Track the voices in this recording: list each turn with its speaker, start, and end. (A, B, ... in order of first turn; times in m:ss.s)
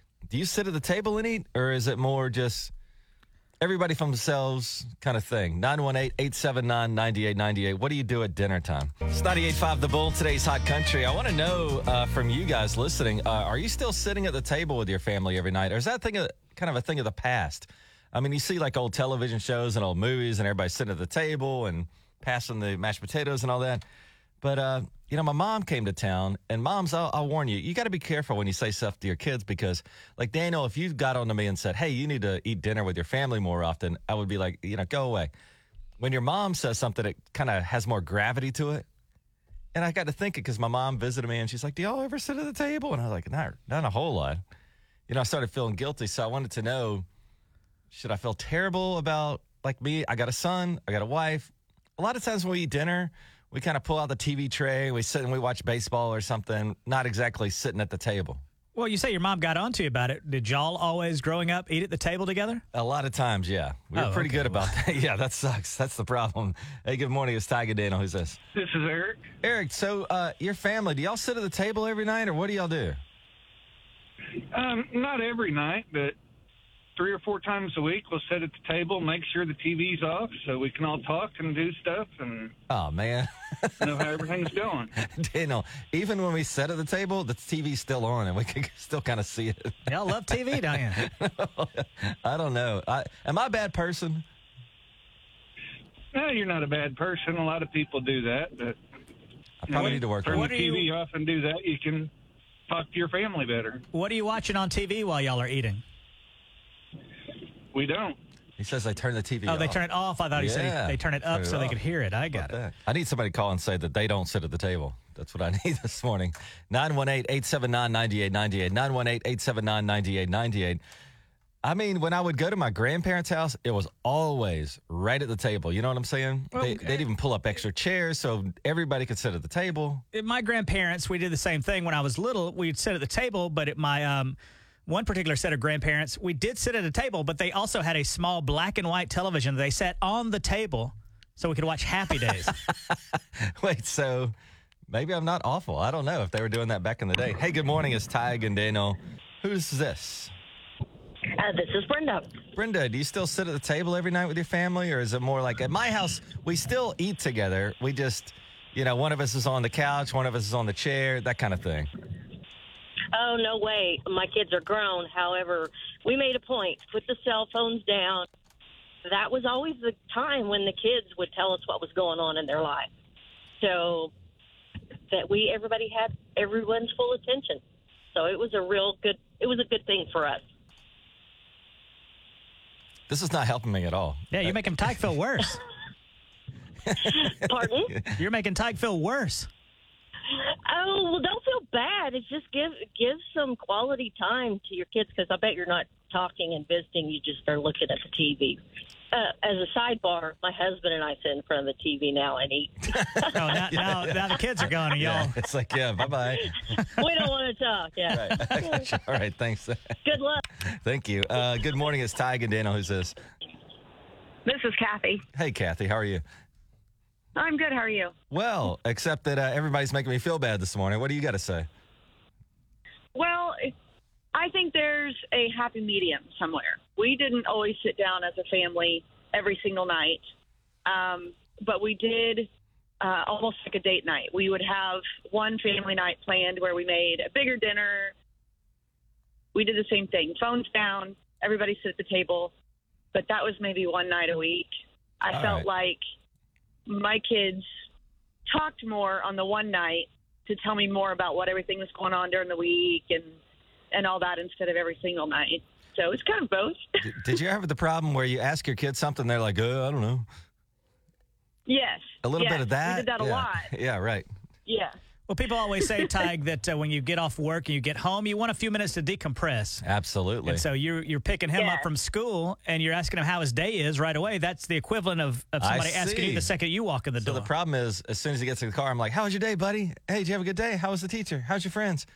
0:00.3-0:02.7 A
0:03.6-0:23.8 A
0:24.4-0:35.3 A
0:36.0-0:38.8 A
0:39.7-0:44.4 A
0:45.1-0:47.0 A
0:47.9-0:58.4 A
0:58.8-1:02.6 B
1:02.7-1:08.4 A
1:03.9-1:04.7 B
1:08.5-1:09.2 C
1:09.4-1:13.0 A
1:14.5-1:16.2 C
1:17.0-1:22.5 C
1:22.7-1:24.2 A
1:23.8-1:24.9 C
1:25.0-1:34.2 A
1:29.9-1:31.1 B
1:36.1-1:38.8 C
1:39.6-1:40.5 A
1:39.7-1:42.1 C
1:39.7-1:40.9 B
1:42.7-1:43.8 C
1:43.9-1:45.8 B
1:47.7-1:48.2 C
1:48.6-1:49.8 A
1:49.4-1:52.6 B
1:50.3-1:51.8 A
1:52.3-2:00.8 A
2:01.6-2:10.0 A
2:06.5-2:07.0 B
2:10.1-2:22.6 B
2:22.4-2:24.3 A
2:24.9-2:30.3 A
2:31.4-2:32.3 D
2:32.6-2:41.9 A
2:43.1-2:48.3 D
2:49.0-2:52.9 D
2:53.6-2:54.1 D
2:55.1-2:57.6 D
2:58.1-3:00.4 D
3:03.1-3:04.8 A
3:04.3-3:05.6 B
3:06.9-3:07.9 A
3:07.0-3:08.0 D
3:08.2-3:09.5 B
3:10.3-3:18.6 D
3:19.1-3:23.5 D
3:22.9-3:24.4 A
3:23.3-3:25.4 B
3:25.0-3:26.6 A
3:26.4-3:28.9 D
3:28.1-3:29.9 A
3:30.0-3:30.4 D
3:30.7-3:33.2 A
3:34.4-3:35.2 E
3:35.3-3:36.2 A
3:37.4-3:38.1 E
3:38.3-3:41.7 A
3:43.1-3:43.7 E
3:44.3-3:50.2 E
3:50.8-3:52.5 E
3:53.0-3:58.1 E
3:59.5-4:02.5 E
4:03.1-4:06.0 E
4:05.3-4:05.7 A
4:06.9-4:07.6 E
4:08.5-4:13.3 E
4:13.9-4:16.8 E
4:17.0-4:20.3 A
4:21.7-4:23.7 E
4:22.2-4:24.3 A
4:24.6-4:24.9 E
4:25.3-4:29.8 B
4:29.8-4:30.6 A
4:30.4-4:37.5 B
4:31.6-4:31.8 E
4:35.6-4:36.5 A
4:37.2-4:42.1 A